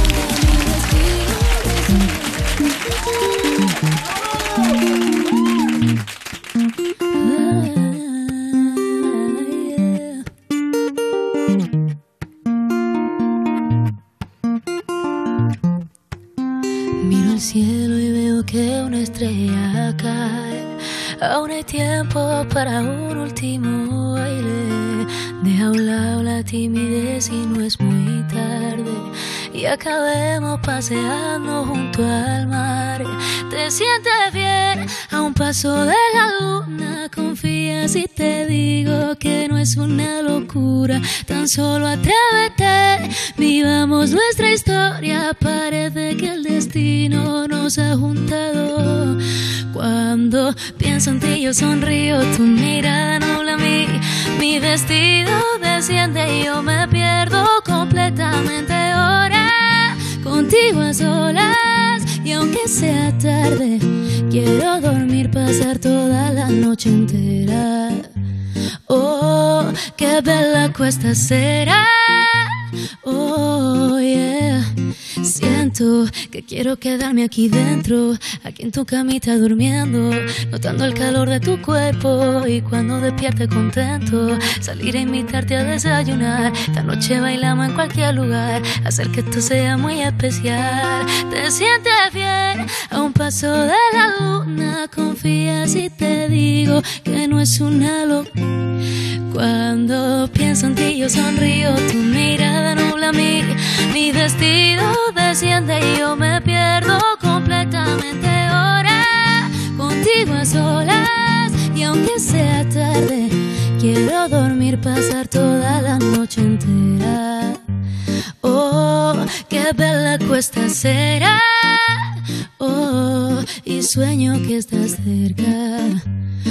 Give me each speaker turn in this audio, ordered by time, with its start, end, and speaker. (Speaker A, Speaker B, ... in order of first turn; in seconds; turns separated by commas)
Speaker A: 0.3-2.2, Speaker A: 7.2-10.2, Speaker A: 17.0-68.1, Speaker A: 68.9-74.7, Speaker A: 75.2-98.3, Speaker A: 99.3-117.6, Speaker A: 118.4-126.0